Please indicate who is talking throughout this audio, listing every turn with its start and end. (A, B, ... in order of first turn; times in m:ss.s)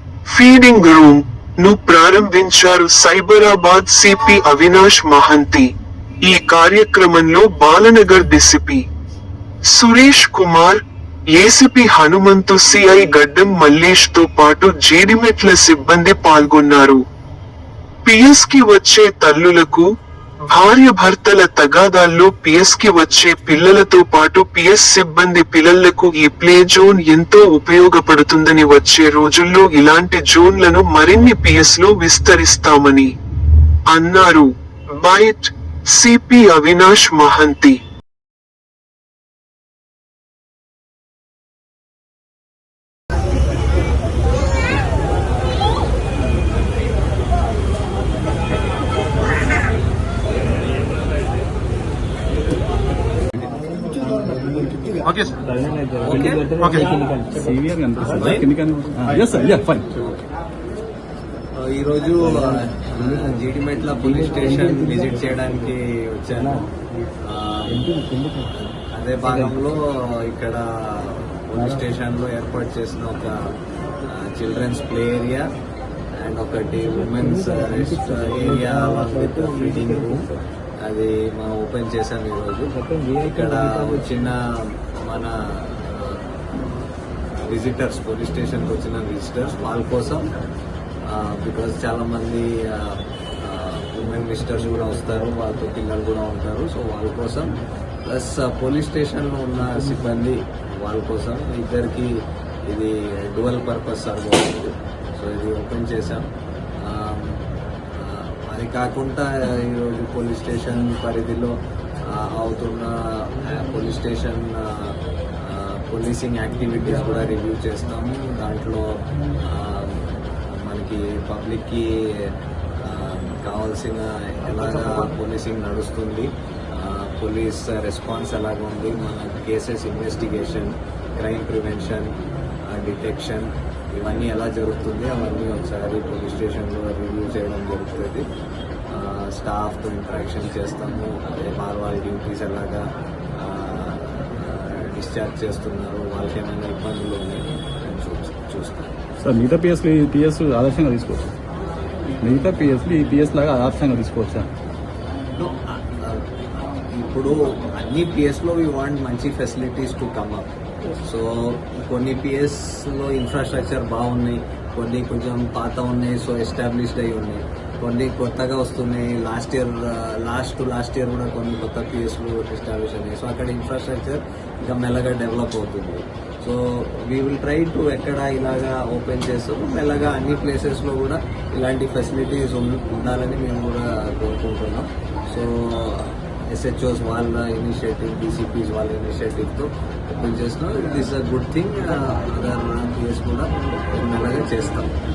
0:00.3-0:08.9 A
0:09.7-0:17.0 A
0:18.0-0:19.9 A
0:20.5-0:33.2 A
0:33.9-0:37.8 A
0:53.9-0:57.5 B
0:56.0-0:56.9 C
0:57.4-1:00.0 D
1:00.0-1:00.2 C
1:01.6-1:06.6 C
1:02.4-1:03.4 B
1:04.2-1:05.4 B
1:07.2-1:07.9 C
1:07.8-1:08.5 B
1:08.5-1:15.5 C
1:09.3-1:09.6 B
1:16.2-1:26.4 C
1:17.1-1:20.4 B
1:22.8-1:24.0 B
1:27.4-1:30.3 C
1:31.1-1:42.2 C
1:42.7-1:46.3 C
1:46.8-1:47.4 C
1:48.0-1:51.6 C
1:52.1-2:12.1 C
2:12.7-2:18.3 C
2:18.9-2:28.9 C
2:29.2-2:31.3 D
2:32.2-2:34.5 D
2:35.3-3:14.9 C